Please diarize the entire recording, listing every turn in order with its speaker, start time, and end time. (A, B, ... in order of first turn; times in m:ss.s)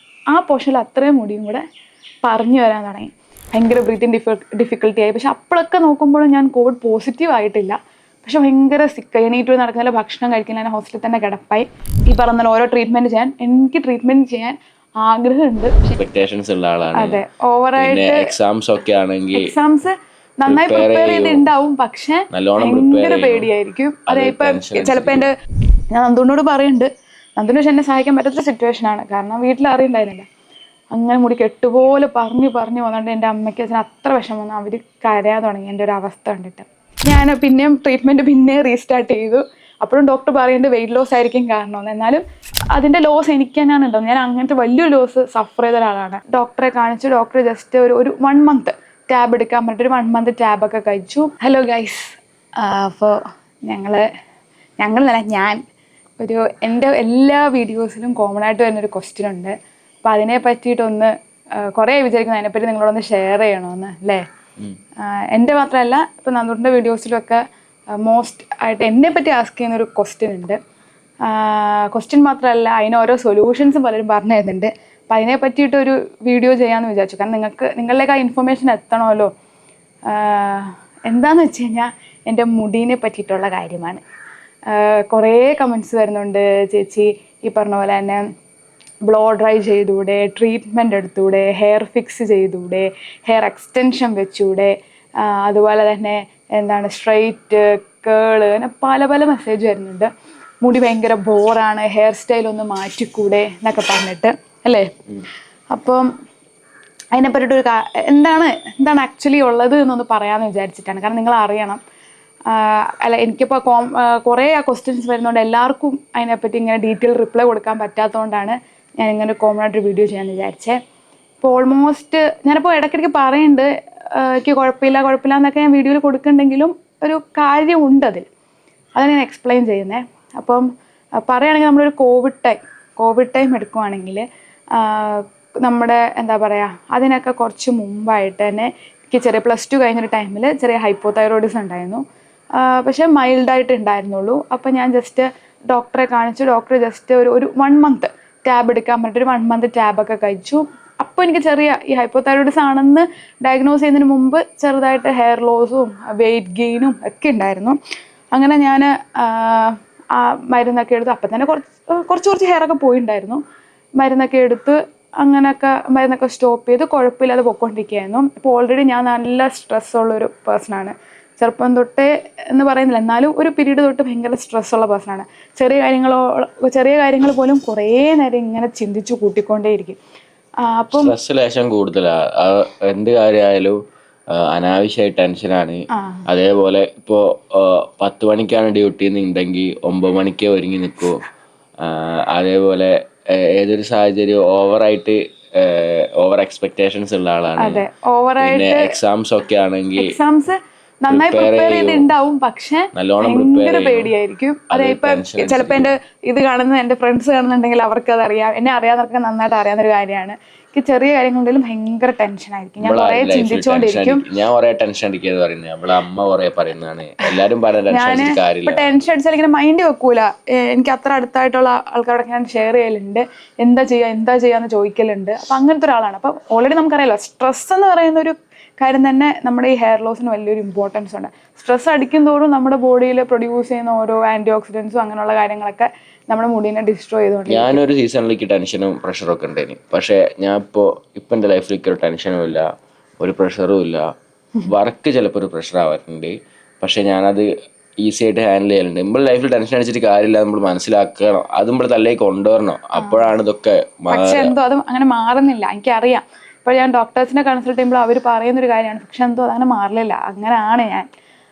0:00.3-0:01.6 A
0:02.2-0:15.9 A
0:15.9-0:17.2 B
0:16.9-0:18.3 A
0:17.8-0:19.5 B
0:19.3-0:25.3 A
0:20.5-0:21.4 B
0:22.3-0:23.5 B
0:24.1-0:25.3 B
0:25.9-0:30.2 A
0:30.9-0:54.0 A
0:54.8-0:55.6 A
0:56.2-0:59.5 A
1:00.0-1:01.1 A
1:01.6-1:04.2 A
1:05.0-1:07.4 A
1:08.0-1:10.6 A
1:11.2-1:19.3 A
1:20.1-1:24.0 A
1:24.7-1:28.2 A
1:29.1-1:40.1 A
1:40.6-1:45.0 A
1:45.7-1:46.1 A
1:47.1-1:51.8 A
1:52.5-2:00.8 A
2:01.4-2:08.2 A
2:09.0-2:10.7 A
2:11.2-2:22.0 A
2:22.6-2:37.8 A
2:38.3-2:43.4 A
2:44.0-3:00.0 A
3:00.6-3:01.1 A
3:00.9-3:03.8 B
3:04.3-3:11.2 B
3:06.0-3:06.2 A
3:11.8-3:17.8 B
3:17.6-3:18.9 A
3:18.4-3:20.2 B
3:20.0-3:34.2 A
3:21.1-3:22.1 B
3:22.9-3:24.1 B
3:24.7-3:25.9 B
3:32.8-3:38.9 B
3:37.9-3:57.8 A
3:57.5-4:02.6 B
4:03.2-4:04.0 B
4:04.6-4:07.5 B
4:08.0-4:14.5 B
4:13.0-4:13.3 A
4:14.1-4:21.0 A